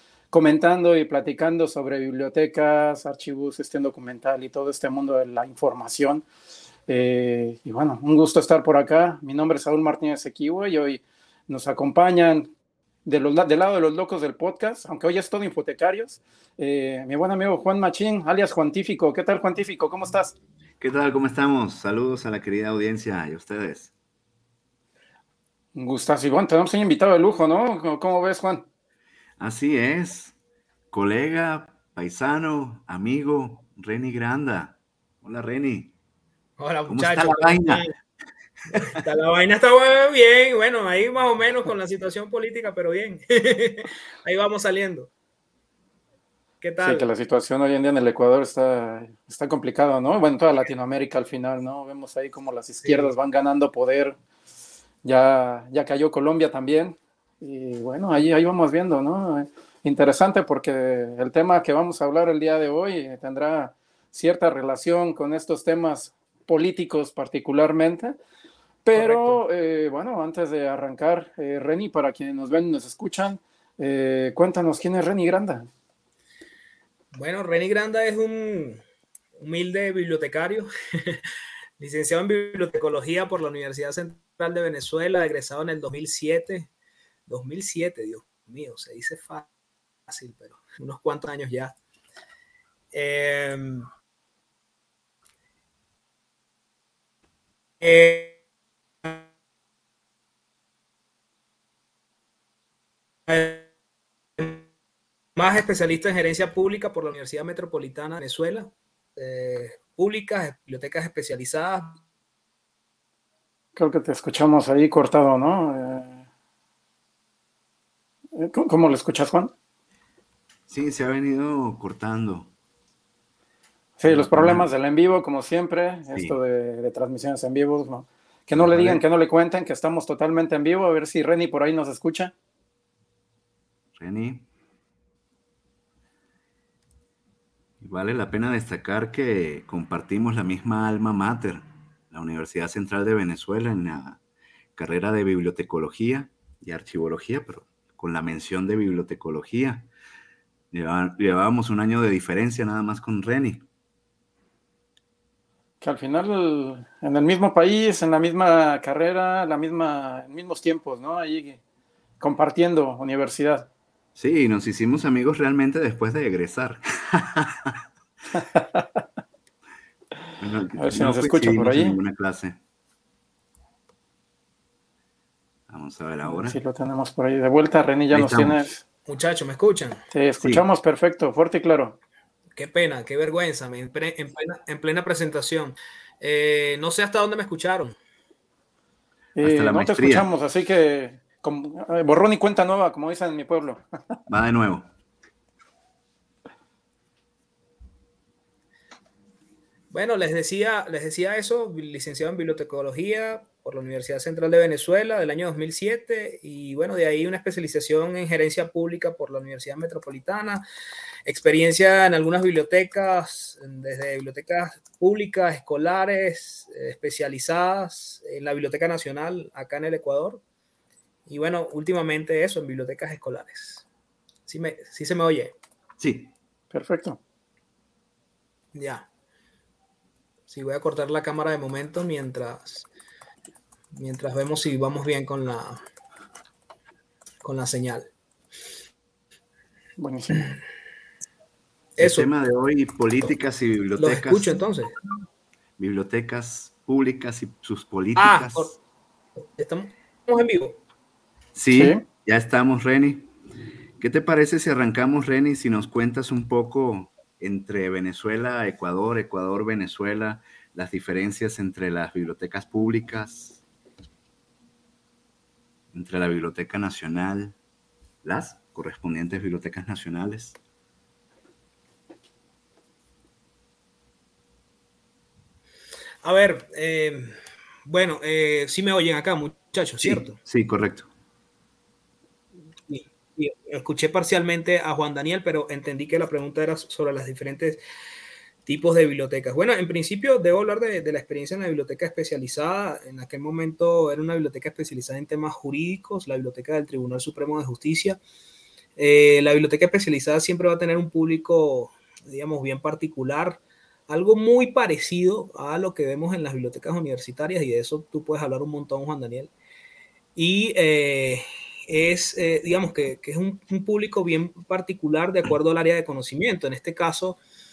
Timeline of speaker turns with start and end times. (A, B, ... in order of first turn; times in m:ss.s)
0:00.3-0:06.2 A
0:06.9-0:12.5 A
0:13.0-0:20.3 A
0:20.8-0:23.9 B
0:25.7-0:28.6 A
0:29.4-0:30.3 B
0:30.9-0:35.9 B
0:36.6-0:37.9 C
0:36.9-0:37.8 B
0:38.7-0:45.1 C
0:46.6-0:47.1 C
0:46.8-0:54.2 A
0:52.8-0:53.1 C
0:55.0-1:08.2 A
1:08.8-1:15.6 A
1:08.9-1:09.4 C
1:17.1-1:18.8 C
1:19.4-1:21.2 C
1:21.8-1:26.7 C
1:27.3-1:29.5 C
1:30.1-1:31.7 C
1:32.9-1:33.9 C
1:37.8-1:38.4 C
1:43.3-1:43.7 C
1:44.4-1:44.6 C
1:45.4-1:52.0 C
1:53.8-1:56.2 A
1:58.3-1:59.5 A
2:00.7-2:02.5 B
2:04.0-2:12.3 A
2:04.0-2:04.7 B
2:06.1-2:06.4 B
2:08.5-2:09.0 B
2:14.0-2:14.5 B
2:17.8-2:24.2 B
2:24.8-2:29.9 B
2:30.7-2:33.6 B
2:35.8-2:41.6 A
2:42.2-2:43.7 A
2:44.2-2:47.8 B
2:48.4-2:49.0 A
2:50.4-2:52.6 B
2:50.8-2:52.0 A
2:55.7-2:56.6 B
2:56.2-2:58.8 A
2:58.1-2:58.6 B
2:59.1-3:00.0 C
3:00.1-3:02.0 A
3:02.6-3:08.0 C
3:09.4-3:10.3 B
3:09.4-3:13.8 A
3:14.3-3:14.9 B
3:19.9-3:30.6 C
3:31.2-3:40.4 C
3:41.3-3:43.8 C
3:44.5-3:45.5 C
3:46.0-3:46.3 B
3:46.7-3:47.2 A
3:48.7-3:49.1 C
3:50.5-3:52.9 C
3:53.9-3:55.8 C
3:57.4-3:58.1 C
4:00.0-4:00.5 A
4:02.0-4:04.6 B
4:02.0-4:02.3 C
4:04.0-4:04.9 C
4:05.8-4:08.8 B
4:08.2-4:08.8 C
4:09.4-4:10.8 C
4:11.5-4:13.3 B
4:11.7-4:12.0 A
4:14.0-4:23.6 B
4:25.9-4:27.6 B
4:28.2-4:30.6 B
4:36.2-4:37.3 C
4:37.8-4:40.4 C
4:40.0-4:41.1 B
4:42.9-4:47.8 C
4:48.6-4:58.2 C
4:59.0-5:09.5 C
5:10.4-5:17.4 C